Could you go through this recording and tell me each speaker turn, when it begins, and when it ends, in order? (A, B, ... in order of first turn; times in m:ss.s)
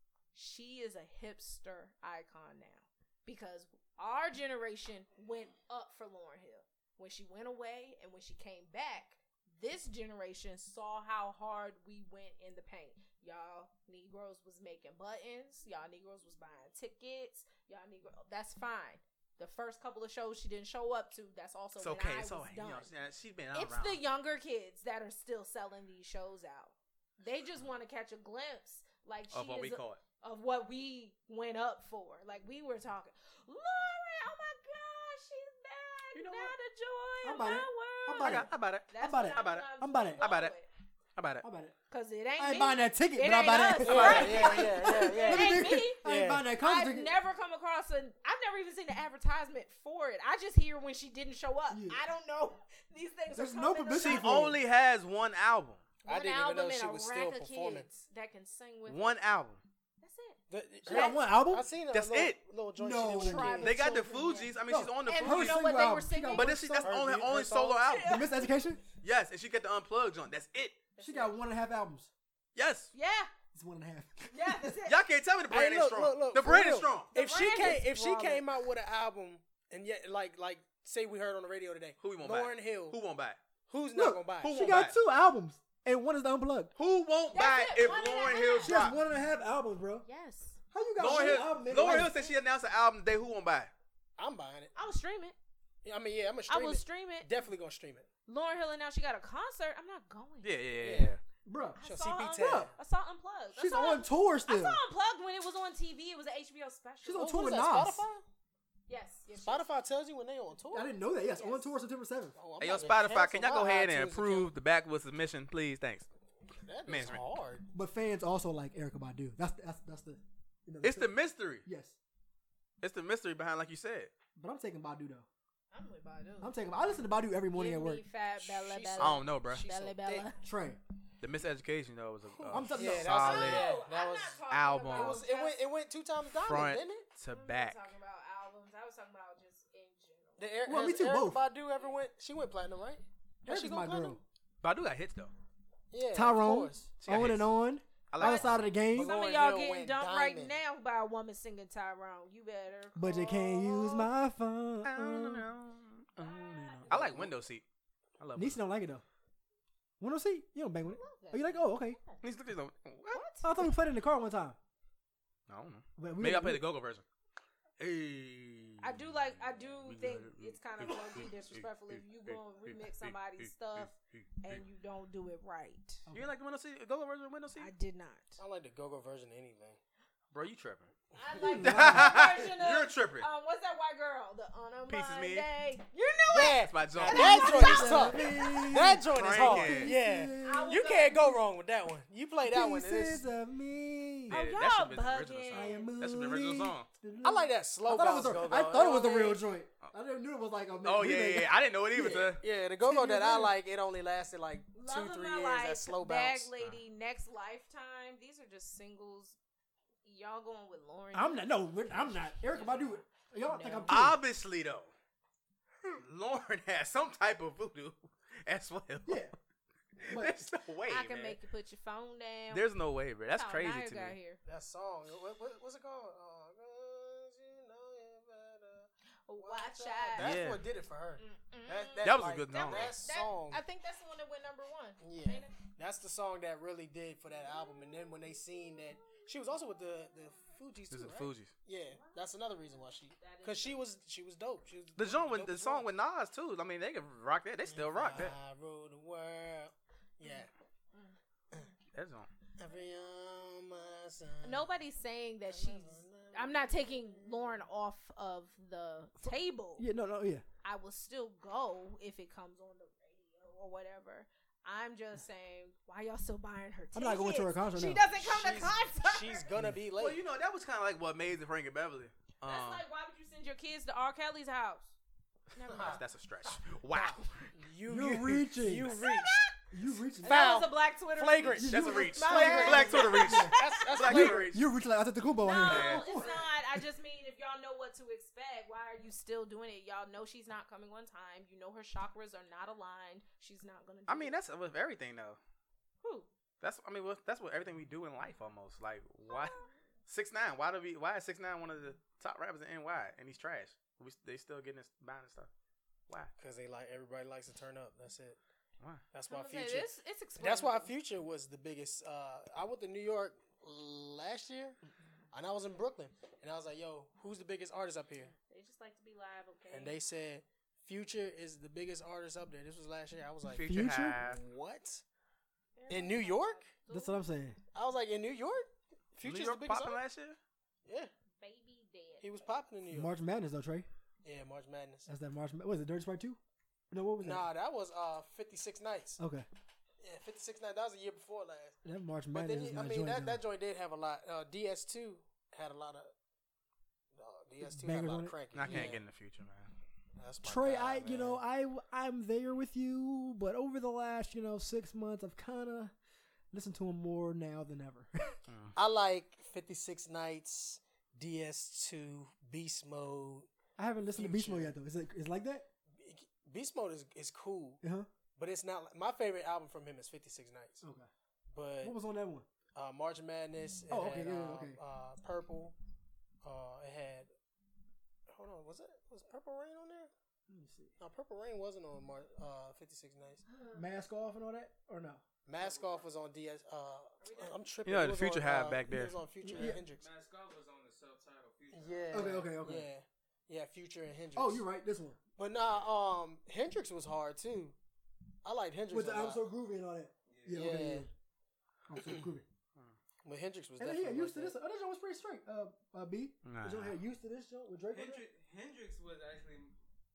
0:00.3-0:22.9 A
0:21.8-0:24.0 B
0:23.5-0:40.7 A
0:29.3-0:30.0 B
0:36.1-0:36.5 B
0:37.2-0:40.2 C
0:38.2-0:40.5 B
0:41.2-0:41.4 B
0:41.4-0:41.8 C
0:41.9-0:46.0 A
0:42.4-0:47.1 C
0:43.8-0:46.4 D
0:46.6-0:54.4 A
0:51.7-0:52.0 C
0:53.3-0:54.6 C
0:54.0-0:55.8 B
0:56.0-0:59.2 A
0:56.1-0:57.9 D
0:58.9-0:59.6 B
1:00.0-1:01.3 A
1:00.5-1:03.8 D
1:00.9-1:01.6 C
1:01.9-1:02.4 B
1:02.8-1:03.7 C
1:03.1-1:06.8 A
1:03.6-1:05.6 B
1:04.7-1:06.9 C
1:06.3-1:08.2 B
1:06.8-1:07.8 D
1:07.9-1:08.5 A
1:08.0-1:08.8 C
1:09.0-1:10.8 B
1:11.0-1:11.4 A
1:11.0-1:12.1 C
1:12.6-1:12.9 B
1:12.9-1:13.3 A
1:13.5-1:14.8 C
1:14.3-1:15.0 A
1:14.9-1:17.1 B
1:15.5-1:23.0 D
1:17.1-1:18.5 A
1:22.0-1:23.4 B
1:23.7-1:24.6 D
1:23.9-1:26.7 C
1:24.4-1:25.0 B
1:26.8-1:29.0 B
1:27.3-1:28.8 A
1:28.6-1:30.1 C
1:30.0-1:30.6 A
1:30.7-1:32.1 C
1:31.0-1:33.7 B
1:31.8-1:32.1 D
1:34.2-1:34.7 D
1:34.8-1:35.4 A
1:35.8-1:38.1 D
1:36.5-1:37.4 A
1:38.3-1:40.7 A
1:40.4-1:41.2 B
1:40.8-1:41.1 D
1:41.5-1:41.8 C
1:41.8-1:47.4 A
1:41.8-1:42.7 D
1:43.6-1:44.8 C
1:47.0-1:48.0 C
1:47.2-1:48.2 D
1:48.9-1:49.7 A
1:49.4-1:50.9 D
1:50.7-1:52.4 C
1:51.3-1:51.7 A
1:52.4-1:54.5 D
1:52.6-1:56.1 B
1:56.6-1:57.6 D
1:56.9-1:57.3 B
1:57.7-2:01.1 C
2:00.8-2:01.7 B
2:01.6-2:02.0 C
2:02.8-2:04.1 B
2:04.4-2:05.3 C
2:05.7-2:06.6 A
2:06.4-2:08.0 C
2:07.5-2:10.4 A
2:08.4-2:10.3 D
2:09.0-2:09.7 B
2:10.4-2:10.8 C
2:11.2-2:13.8 B
2:12.3-2:17.1 D
2:12.5-2:13.2 C
2:13.1-2:15.6 A
2:14.5-2:15.2 B
2:16.3-2:17.9 B
2:17.3-2:20.5 A
2:20.4-2:24.2 D
2:20.7-2:21.4 C
2:23.5-2:24.2 C
2:24.6-2:25.3 B
2:25.9-2:26.9 D
2:26.1-2:29.1 C
2:27.0-2:27.5 B
2:28.1-2:28.7 B
2:28.2-2:34.1 A
2:28.9-2:30.6 D
2:33.0-2:35.5 C
2:34.8-2:37.6 B
2:36.2-2:37.3 A
2:38.2-2:38.6 B
2:38.4-2:39.0 C
2:40.0-2:42.0 C
2:40.9-2:42.2 A
2:42.2-2:43.2 B
2:43.1-2:43.5 A
2:43.4-2:44.6 C
2:45.5-2:47.0 B
2:46.0-2:46.6 C
2:47.8-2:54.6 B
2:48.8-2:56.0 A
2:56.1-2:56.3 C
2:56.1-2:57.7 B
2:57.6-2:58.4 A
2:58.4-2:59.8 D
3:00.3-3:00.9 B
3:01.1-3:08.9 A
3:01.4-3:02.3 C
3:01.6-3:03.3 B
3:04.9-3:05.5 B
3:06.3-3:13.2 D
3:06.6-3:07.5 B
3:07.1-3:10.8 C
3:08.9-3:10.0 B
3:10.4-3:11.4 A
3:12.4-3:14.4 C
3:14.3-3:16.0 A
3:14.3-3:16.9 B
3:15.5-3:22.3 C
3:17.2-3:19.4 D
3:20.8-3:22.4 B
3:22.3-3:26.5 D
3:22.8-3:23.6 C
3:24.7-3:29.4 A
3:30.0-3:31.4 A
3:31.1-3:34.2 C
3:32.6-3:33.9 A
3:33.9-3:34.9 B
3:36.0-3:39.3 B
3:39.1-3:39.3 C
3:40.0-3:41.4 B
3:40.0-3:40.4 C
3:40.9-3:42.7 A
3:42.5-3:44.2 B
3:43.3-3:44.4 A
3:44.4-3:53.6 D
3:49.3-3:50.5 A
3:50.2-3:50.6 B
3:51.2-3:55.6 A
3:52.0-3:53.0 B
3:55.0-4:05.8 D
4:00.9-4:01.5 B
4:03.2-4:03.8 A
4:05.0-4:08.4 B
4:07.7-4:10.5 D
4:11.9-4:12.3 B
4:12.6-4:14.6 D
4:14.4-4:19.9 A
4:15.5-4:17.6 D
4:19.2-4:20.4 C
4:20.6-4:29.5 A
4:27.0-4:28.0 C
4:28.1-4:30.2 D
4:29.9-4:32.8 B
4:32.4-4:34.9 A
4:35.5-4:36.0 A
4:35.7-4:36.0 D
4:35.7-4:37.5 B
4:36.9-4:39.3 D
4:37.9-4:38.9 C
4:39.0-4:39.5 A
4:39.7-4:40.4 C
4:40.2-4:44.2 A
4:40.2-4:44.5 D
4:41.5-4:46.4 C
4:41.7-4:44.7 B
4:45.4-4:54.3 A
4:45.6-4:46.1 B
4:54.1-4:55.4 B
4:56.0-4:56.3 A
4:56.6-5:05.5 B
4:59.3-4:59.7 A
5:06.4-5:08.4 D
5:09.1-5:14.8 D
5:09.3-5:10.9 A
5:15.3-5:18.3 D
5:18.5-5:20.0 A
5:19.7-5:25.0 D
5:23.5-5:24.4 B
5:23.6-5:24.2 C
5:25.8-5:27.2 A
5:25.9-5:26.7 D
5:26.9-5:27.6 C
5:27.7-5:30.0 D
5:29.2-5:30.4 B
5:30.9-5:31.1 D
5:31.4-5:32.5 A
5:32.2-5:33.1 D
5:32.9-5:33.9 C
5:34.2-5:35.1 D
5:35.1-5:36.4 C
5:36.9-5:37.5 C
5:37.2-5:39.2 D
5:39.2-5:39.5 C
5:40.0-5:41.8 D
5:41.8-5:43.4 C
5:42.3-5:46.1 D
5:47.1-5:49.0 D
5:47.6-5:48.9 C
5:48.5-5:49.7 B
5:50.2-5:51.4 D
5:50.4-5:55.9 C
5:56.5-5:58.3 C
5:58.5-5:58.8 B
5:58.8-6:03.5 D
6:03.8-6:05.7 C
6:04.2-6:04.7 D
6:06.0-6:07.8 D
6:07.8-6:08.1 C
6:08.4-6:10.8 D
6:10.8-6:11.1 C
6:11.5-6:12.0 D
6:11.8-6:12.5 C
6:12.7-6:15.8 D
6:13.9-6:14.8 C
6:16.4-6:17.3 D
6:18.3-6:20.1 D
6:20.5-6:20.9 C
6:21.0-6:23.4 D
6:23.7-6:25.2 C
6:25.5-6:30.1 D
6:25.6-6:26.1 E
6:27.2-6:27.6 A
6:27.8-6:29.2 B
6:29.4-6:29.8 C
6:29.6-6:32.3 E
6:31.7-6:34.6 D
6:32.1-6:32.9 C
6:34.3-6:35.2 C
6:35.4-6:37.8 D
6:38.4-6:39.4 D
6:38.9-6:41.1 C
6:40.3-6:40.7 E
6:40.5-6:41.1 D
6:41.9-6:42.4 C
6:43.2-6:44.6 D
6:43.8-6:48.2 C
6:46.4-6:47.0 B
6:47.9-6:49.7 E